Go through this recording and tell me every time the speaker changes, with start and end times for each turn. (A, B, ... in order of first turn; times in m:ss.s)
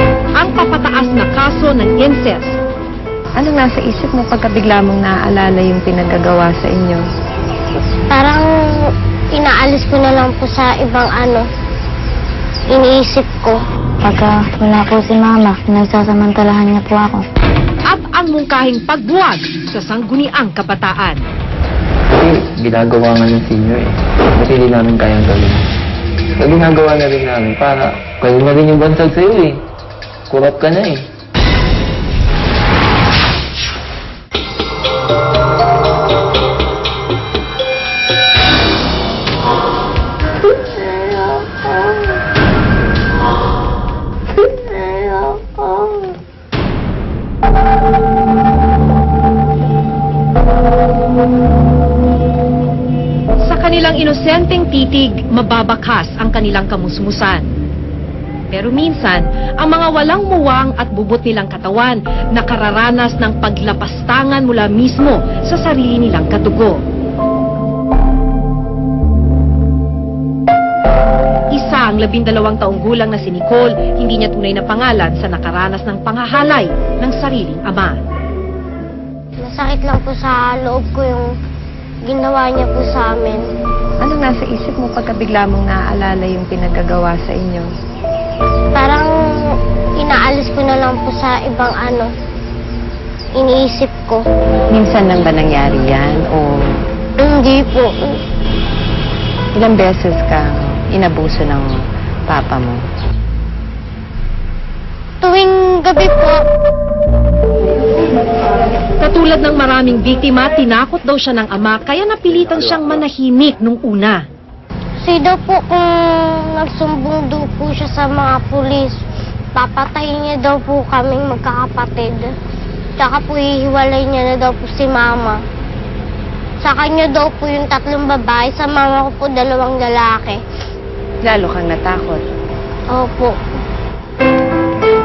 0:00.4-0:02.6 A
0:03.3-0:07.0 B
0:08.1-0:08.4 C
0:09.3-0:11.4 C
0:12.7-0:13.6 C
0:14.0-0:17.2 D
0:17.8-0:21.2 A
0:22.1-0:25.6 E
0:26.4-0:29.6 E
0:30.3-0:31.1 E
0:53.4-0:57.5 A
0:58.5-1:06.8 A
1:11.5-1:18.0 A
1:19.4-1:21.2 C
1:22.0-1:23.4 C
1:24.0-1:27.7 B
1:28.8-1:29.1 C
1:30.0-1:32.1 C
1:33.4-1:34.2 C
1:34.7-1:36.7 B
1:37.2-1:38.2 C
1:39.5-1:42.8 B
1:45.2-1:46.4 C
1:49.0-1:54.2 A
1:55.0-1:55.9 C
1:56.5-1:58.9 C
1:59.5-2:02.3 C
2:03.0-2:05.4 C
2:06.6-2:10.4 C
2:11.2-2:12.2 B
2:12.9-2:13.3 C